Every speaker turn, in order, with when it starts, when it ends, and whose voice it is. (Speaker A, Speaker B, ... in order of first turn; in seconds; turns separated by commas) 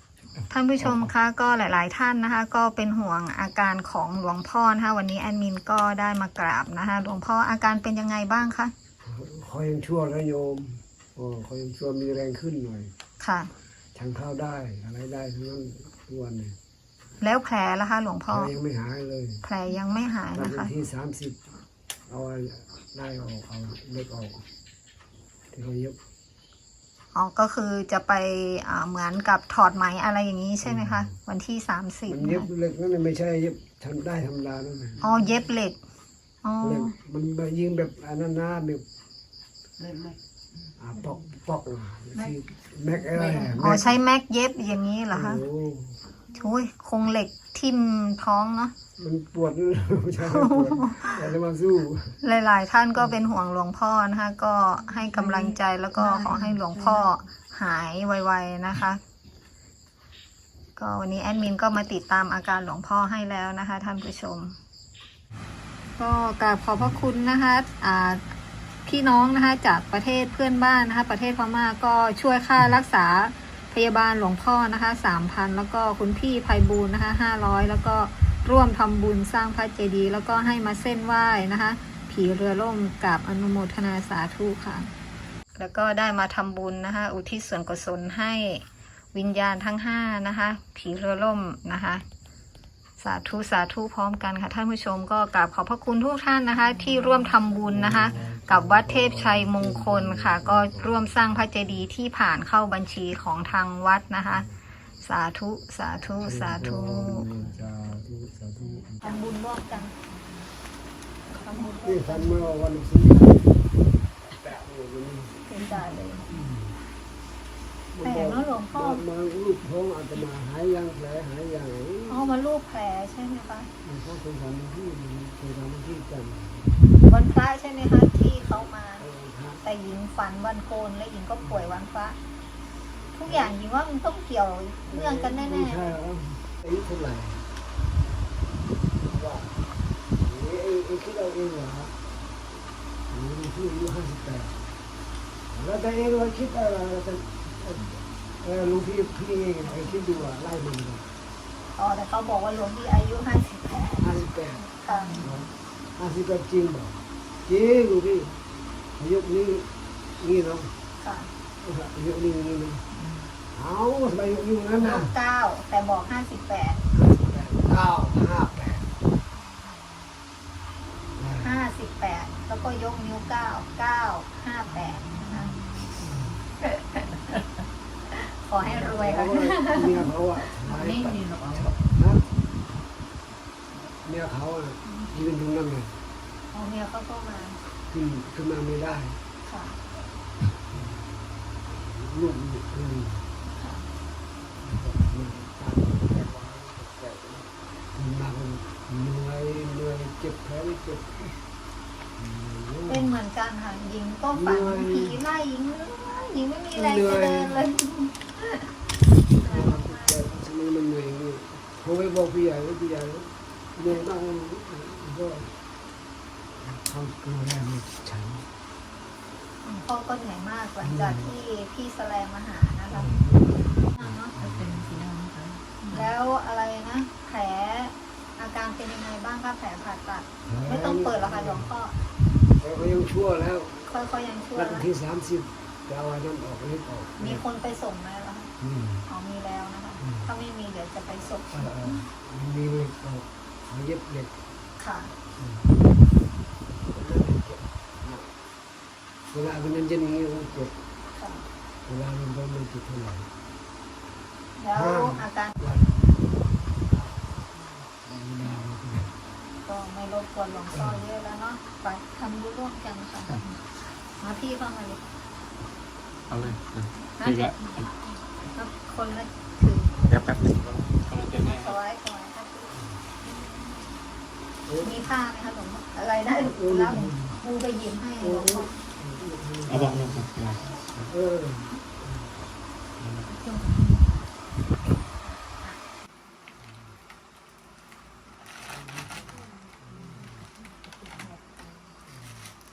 Speaker A: 0.5-8.7, Speaker B: 9.0-12.9, Speaker A: 13.2-13.5, Speaker B: 13.9-16.6, Speaker A: 17.2-18.5, Speaker B: 18.3-19.4, Speaker A: 19.4-20.7, Speaker B: 20.4-21.4, Speaker B: 22.1-24.4, Speaker B: 25.5-26.0, Speaker A: 27.1-32.5, Speaker B: 30.6-31.1, Speaker B: 32.1-35.0, Speaker A: 35.0-35.8, Speaker A: 36.4-36.9, Speaker B: 36.6-38.8, Speaker C: 39.8-40.1, Speaker B: 40.8-44.0, Speaker A: 43.6-45.4, Speaker B: 45.1-46.0, Speaker A: 46.3-48.7, Speaker B: 49.0-52.2, Speaker A: 50.2-51.2, Speaker A: 52.2-59.0, Speaker C: 56.1-57.0, Speaker A: 60.8-64.6, Speaker A: 66.0-68.2, Speaker A: 68.9-84.9, Speaker A: 85.6-92.0, Speaker A: 93.0-104.5, Speaker B: 97.7-101.2, Speaker A: 105.0-107.3, Speaker B: 106.2-109.2, Speaker A: 109.0-109.9, Speaker A: 111.3-112.4, Speaker B: 111.8-113.6, Speaker B: 114.3-115.5, Speaker A: 115.5-116.3, Speaker B: 116.3-116.8, Speaker B: 117.9-122.3, Speaker A: 118.0-119.0, Speaker A: 122.1-123.7, Speaker B: 123.8-126.8, Speaker A: 127.0-129.1, Speaker B: 128.6-129.6, Speaker A: 129.6-132.2, Speaker A: 133.1-136.0, Speaker B: 133.3-133.5, Speaker B: 134.9-137.5, Speaker B: 139.0-139.6, Speaker B: 140.2-141.9, Speaker B: 143.1-144.6, Speaker B: 145.5-151.1, Speaker A: 151.8-155.2, Speaker B: 154.0-154.7, Speaker B: 155.2-158.4, Speaker B: 159.0-160.8, Speaker A: 161.0-161.3, Speaker B: 161.6-162.8, Speaker B: 163.5-165.2, Speaker A: 164.8-166.8, Speaker B: 166.9-168.9, Speaker B: 171.2-171.6, Speaker A: 171.4-175.7, Speaker A: 178.1-180.1, Speaker B: 178.6-182.2, Speaker C: 180.7-181.7, Speaker B: 184.0-186.0, Speaker A: 186.5-187.6, Speaker B: 187.9-189.2, Speaker A: 189.4-189.8, Speaker B: 190.7-191.1, Speaker B: 191.7-193.3, Speaker A: 193.5-193.9, Speaker B: 194.6-201.4, Speaker B: 202.2-203.2, Speaker A: 202.9-208.7, Speaker B: 204.3-205.2, Speaker B: 206.7-207.7, Speaker B: 209.3-215.5, Speaker A: 209.4-210.2, Speaker B: 216.6-218.5, Speaker A: 219.6-223.2, Speaker B: 220.8-221.3, Speaker B: 222.9-224.9, Speaker A: 224.0-224.3, Speaker C: 224.3-225.8, Speaker A: 225.8-232.0, Speaker B: 230.5-231.7, Speaker B: 232.6-233.8, Speaker A: 233.9-234.9, Speaker B: 234.5-237.4, Speaker A: 237.2-238.5, Speaker B: 238.6-239.1, Speaker A: 239.1-241.7, Speaker B: 240.0-240.3, Speaker B: 241.5-244.4, Speaker A: 244.8-245.1, Speaker B: 245.4-245.7, Speaker B: 246.8-248.3, Speaker B: 249.3-250.8, Speaker A: 251.1-251.5, Speaker B: 251.9-253.3, Speaker A: 254.6-255.6, Speaker B: 254.7-256.3, Speaker B: 256.8-259.1, Speaker A: 259.6-263.6, Speaker A: 264.2-265.0, Speaker D: 266.3-267.6, Speaker A: 267.2-267.6, Speaker A: 268.5-270.4, Speaker D: 270.1-271.8, Speaker A: 271.2-272.7, Speaker B: 274.7-275.0, Speaker A: 274.8-278.7, Speaker B: 276.4-277.4, Speaker B: 278.2-280.3, Speaker D: 279.7-281.1, Speaker B: 281.0-282.3, Speaker D: 283.0-283.3, Speaker C: 283.3-284.0, Speaker B: 288.8-289.1, Speaker B: 289.8-290.4, Speaker C: 291.1-291.5